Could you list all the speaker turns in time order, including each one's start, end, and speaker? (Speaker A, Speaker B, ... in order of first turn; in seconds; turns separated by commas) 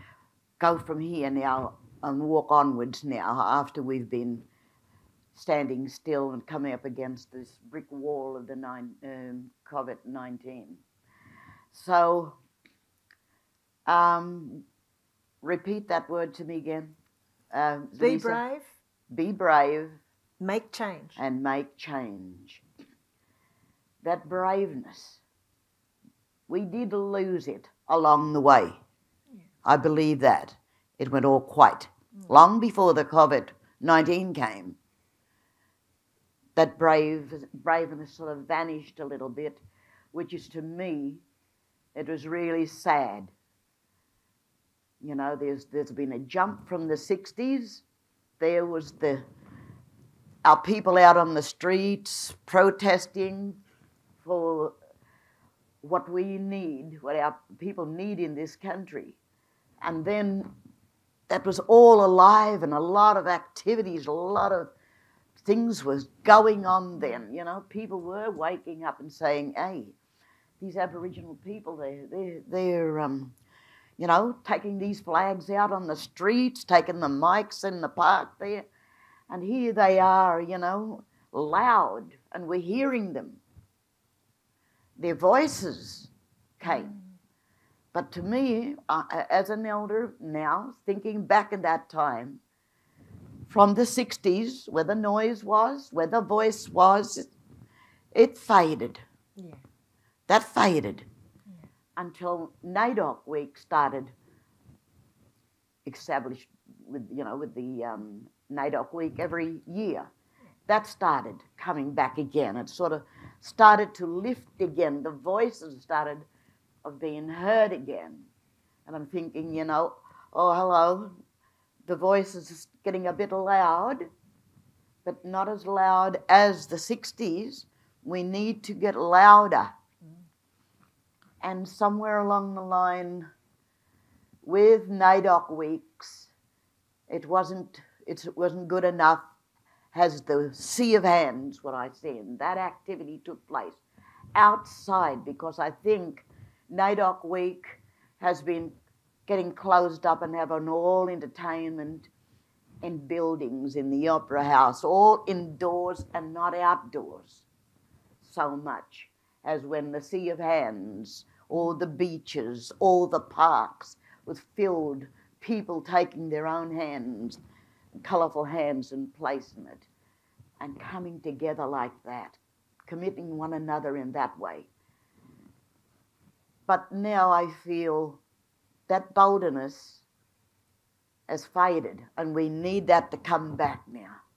Speaker A: 0.6-4.5, Speaker A: 5.3-10.8, Speaker A: 11.7-12.4, Speaker A: 13.9-14.7, Speaker A: 15.4-17.0, Speaker A: 17.5-18.4, Speaker B: 18.0-18.8, Speaker A: 19.1-20.0, Speaker B: 20.4-21.2, Speaker A: 21.2-22.6, Speaker A: 24.0-25.2, Speaker A: 26.5-28.8, Speaker A: 29.6-34.8, Speaker A: 36.6-41.2, Speaker A: 42.0-43.3, Speaker A: 45.0-47.8, Speaker A: 48.4-49.3, Speaker A: 50.4-53.6, Speaker A: 54.2-54.8, Speaker A: 55.8-59.2, Speaker A: 59.8-60.5, Speaker A: 61.3-64.7, Speaker A: 65.4-70.0, Speaker A: 70.6-73.3, Speaker A: 74.0-78.7, Speaker A: 79.3-83.4, Speaker A: 85.0-86.9, Speaker B: 86.6-87.2, Speaker A: 87.9-92.4, Speaker A: 93.5-97.3, Speaker A: 98.1-99.0, Speaker B: 99.4-99.6, Speaker A: 100.3-101.1, Speaker A: 102.0-104.1, Speaker A: 105.9-110.1, Speaker A: 110.7-116.3, Speaker A: 116.8-118.3, Speaker A: 118.9-121.2, Speaker A: 121.8-124.1, Speaker A: 125.0-129.7, Speaker A: 131.4-133.3, Speaker A: 134.4-136.3, Speaker A: 137.1-139.3, Speaker A: 139.9-143.8, Speaker A: 144.3-152.1, Speaker A: 152.8-157.4, Speaker A: 158.2-167.4, Speaker A: 168.0-169.9, Speaker A: 170.6-174.7, Speaker A: 176.7-178.2, Speaker A: 178.9-180.0, Speaker A: 181.3-184.2